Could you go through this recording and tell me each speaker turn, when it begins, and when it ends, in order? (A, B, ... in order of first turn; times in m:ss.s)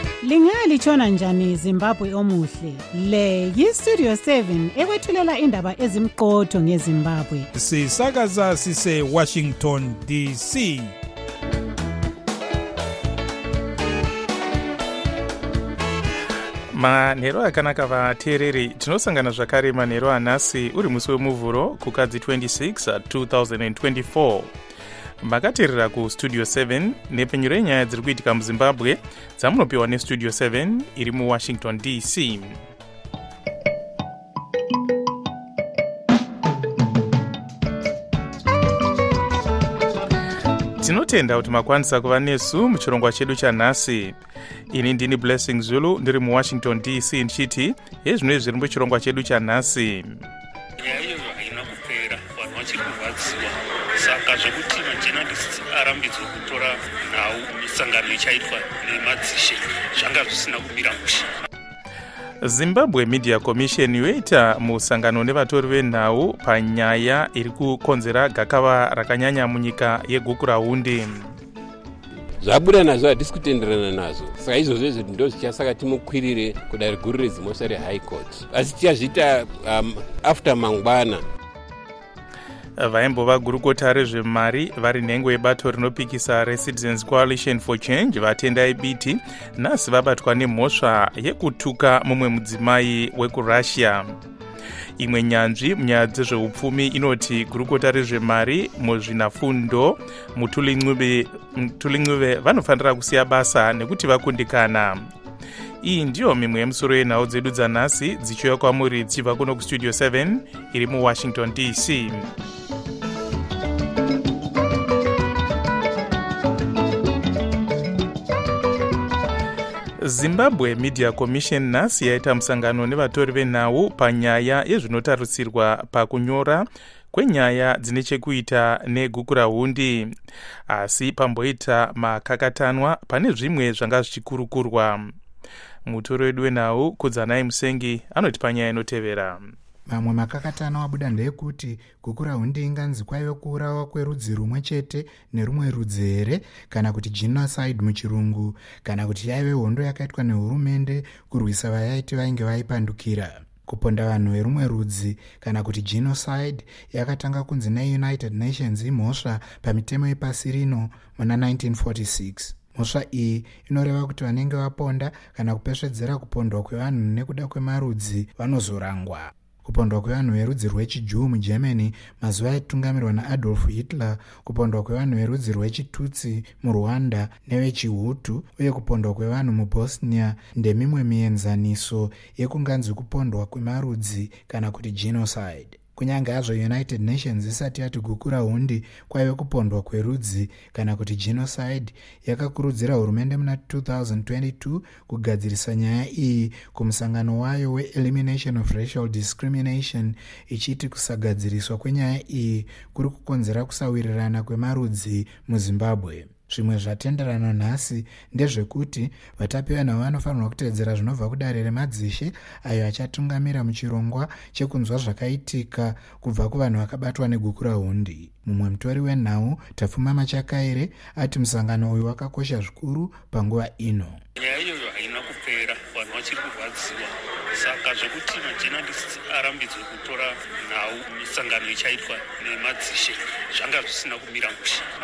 0:00.2-0:07.5 A
0:07.5-0:10.9 B
0:16.7-0:24.5 C
0:25.2-0:32.6 C
0:40.8-0:44.2 C
0:44.7-0:50.2 C
0:50.8-1:01.3 D
1:02.4-1:11.3 C
1:12.4-1:21.2 E
1:22.8-1:34.1 C
1:35.0-1:45.1 C
1:45.8-1:52.3 C
2:00.0-2:10.1 C
2:10.7-2:15.1 C
2:15.9-2:19.6 C
2:19.9-3:44.2 F
3:44.4-3:54.9 D